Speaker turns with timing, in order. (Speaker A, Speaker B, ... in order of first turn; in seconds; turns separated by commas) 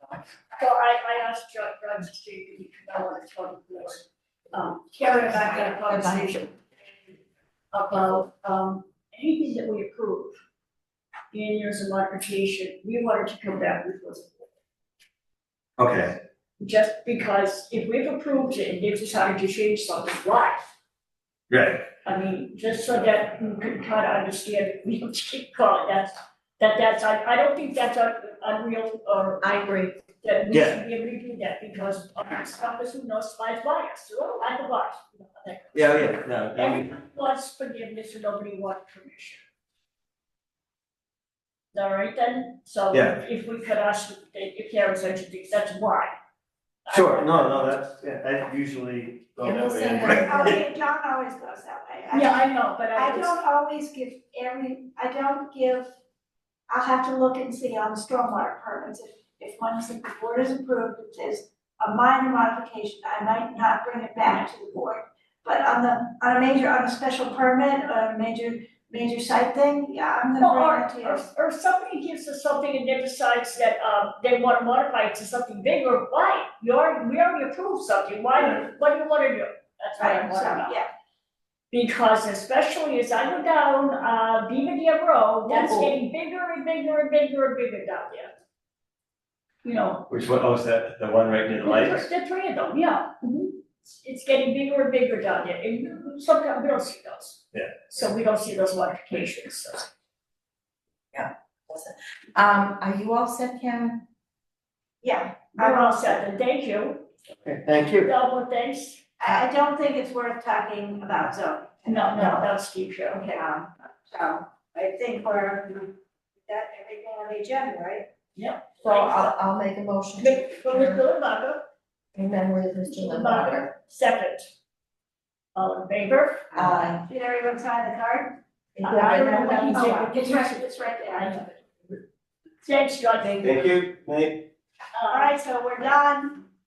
Speaker A: 0.6-6.5, Speaker B: 5.3-6.4, Speaker A: 7.7-10.4, Speaker A: 11.3-14.4, Speaker C: 15.8-16.1, Speaker A: 16.6-20.7, Speaker C: 21.5-21.9, Speaker A: 22.0-29.6, Speaker B: 29.4-30.0, Speaker A: 30.2-39.4, Speaker C: 30.5-30.8, Speaker C: 35.7-36.9, Speaker A: 41.7-46.1, Speaker C: 42.9-43.2, Speaker A: 46.9-47.8, Speaker C: 46.9-50.6, Speaker B: 49.4-50.6, Speaker D: 50.1-52.4, Speaker A: 52.1-53.3, Speaker D: 52.9-55.9, Speaker D: 56.7-71.3, Speaker A: 70.4-80.8, Speaker D: 80.0-80.9, Speaker A: 81.7-88.3, Speaker D: 85.5-85.9, Speaker A: 89.6-90.0, Speaker C: 90.1-92.1, Speaker A: 91.6-99.9, Speaker B: 101.1-104.0, Speaker D: 105.0-106.2, Speaker A: 105.6-107.0, Speaker C: 107.4-108.1, Speaker A: 108.0-109.0, Speaker D: 109.2-112.5, Speaker A: 111.9-113.3, Speaker D: 113.2-118.1, Speaker A: 118.3-119.3, Speaker B: 118.8-121.0, Speaker A: 120.2-121.6, Speaker B: 122.1-123.7, Speaker A: 122.9-124.5, Speaker A: 125.5-126.5, Speaker B: 126.5-127.0, Speaker D: 127.1-128.4, Speaker B: 128.8-130.0, Speaker A: 128.8-131.6, Speaker D: 129.1-131.4, Speaker A: 132.6-133.7, Speaker C: 133.4-134.4, Speaker A: 134.9-135.3, Speaker D: 135.1-136.4